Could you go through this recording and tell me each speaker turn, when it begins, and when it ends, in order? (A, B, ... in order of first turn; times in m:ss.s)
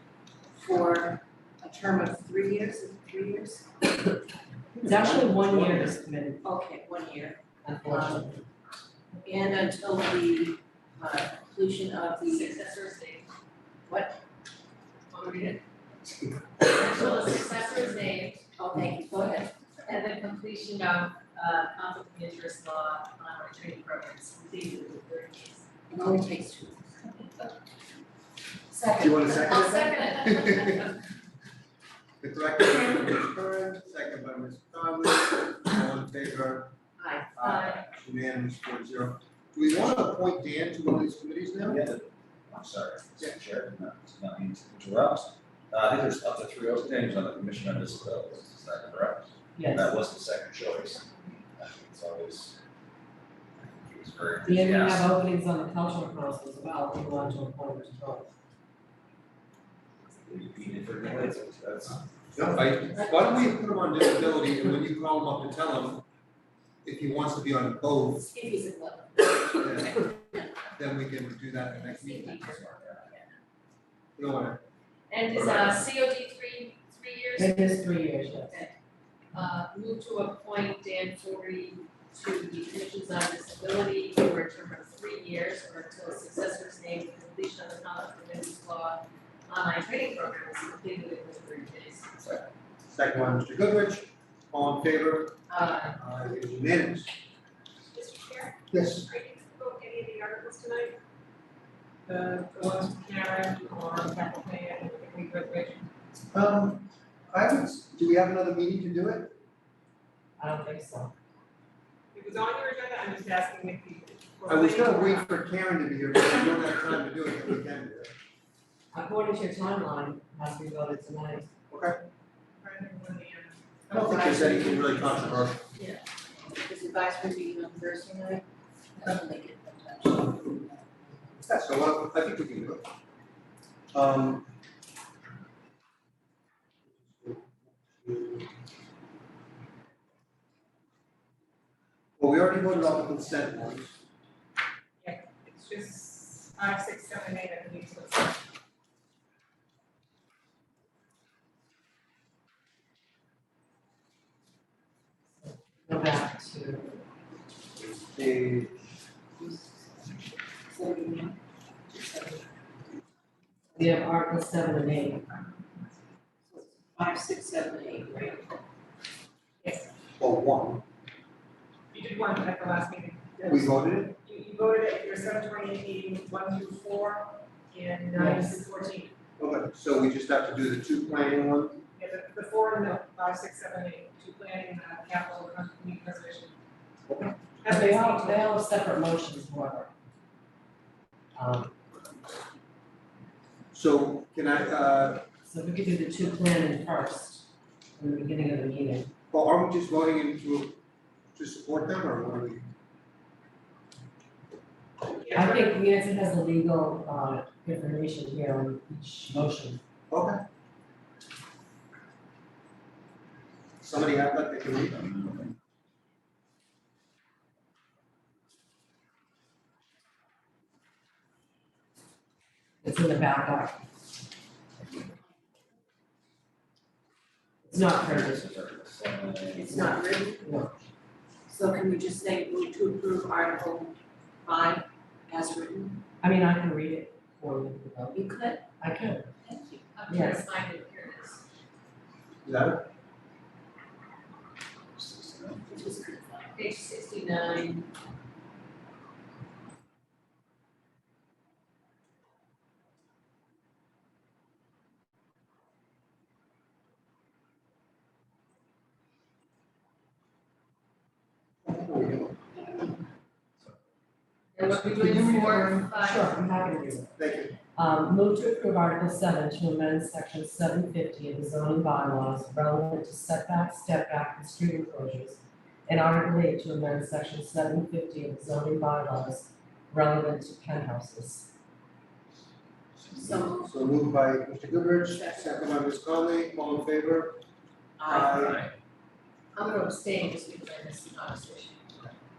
0:00.5-0:03.9 A
0:04.8-0:06.4 B
0:04.9-0:05.7 C
0:06.4-0:08.3 A
0:07.6-0:08.4 B
0:09.2-0:12.6 A
0:12.2-0:13.3 D
0:13.9-0:14.2 A
0:15.1-0:15.6 D
0:16.6-0:18.4 D
0:18.6-0:19.5 A
0:19.8-0:25.7 D
0:25.9-0:27.3 A
0:28.7-0:30.9 D
0:29.0-0:31.0 C
0:32.2-0:36.7 C
0:37.0-0:37.8 D
0:37.3-0:41.8 C
0:41.7-0:51.0 E
0:49.5-0:50.0 B
0:51.6-0:52.6 E
0:53.8-0:55.0 E
0:54.5-0:58.3 B
1:00.3-1:02.0 E
1:02.3-1:06.0 C
1:06.8-1:08.3 C
1:08.3-1:09.9 A
1:09.6-1:10.0 C
1:10.7-1:12.7 C
1:11.9-1:12.7 D
1:14.2-1:14.6 C
1:15.1-1:18.0 D
1:17.3-1:18.6 B
1:19.3-1:32.1 D
1:32.2-1:35.4 C
1:35.5-1:36.0 D
1:35.9-1:37.1 C
1:37.9-1:41.0 F
1:38.7-1:39.1 C
1:42.1-1:45.9 F
1:46.3-1:49.4 C
1:50.4-1:51.1 B
1:52.1-1:55.2 F
1:54.5-1:58.1 C
1:58.9-2:01.5 B
2:01.7-2:02.0 C
2:02.6-2:04.6 F
2:03.9-2:05.6 C
2:03.9-2:06.0 A
2:06.6-2:08.4 A
2:09.0-2:11.2 A
2:11.4-2:12.8 C
2:13.9-2:14.5 C
2:16.9-2:18.5 C
2:22.2-2:24.0 C
2:25.0-2:28.4 F
2:35.4-2:37.0 B
2:38.0-2:38.8 C
2:39.4-2:40.0 A
2:40.7-2:42.4 A
2:43.7-2:45.3 B
2:46.5-2:48.4 A
2:49.6-2:49.9 F
2:50.2-2:50.8 C
2:51.9-2:59.1 F
2:53.5-2:54.2 C
2:58.1-2:58.6 B
2:59.4-3:01.8 C
3:02.0-3:06.6 F
3:07.1-3:07.4 C
3:07.6-3:08.3 F
3:07.7-3:09.9 B
3:11.3-3:11.7 B
3:13.7-3:15.2 C
3:15.4-3:19.1 B
3:19.3-3:20.8 C
3:21.3-3:22.7 C
3:25.3-3:29.8 B
3:30.1-3:30.4 C
3:33.8-3:35.0 C
3:42.8-3:43.8 B
3:47.6-3:48.5 B
3:48.1-3:49.8 E
3:49.5-3:50.5 A
3:49.8-3:50.8 B
3:51.5-3:56.0 A
3:56.2-3:59.3 B
3:58.1-3:58.7 A
3:59.4-3:59.8 A
3:59.9-4:01.4 D
4:00.1-4:00.4 B
4:02.4-4:02.9 C
4:05.0-4:05.6 E
4:05.7-4:06.6 A
4:06.5-4:07.9 D
4:21.6-4:22.5 C
4:24.5-4:26.3 D
4:24.8-4:25.8 C
4:25.2-4:27.1 B
4:27.2-4:27.6 C
4:27.7-4:41.5 B
4:43.1-4:43.7 A
4:43.6-4:47.4 C
4:45.2-4:45.6 A
4:48.0-4:48.5 A
4:48.0-4:48.6 C
4:48.3-4:48.7 E
4:49.5-4:51.9 D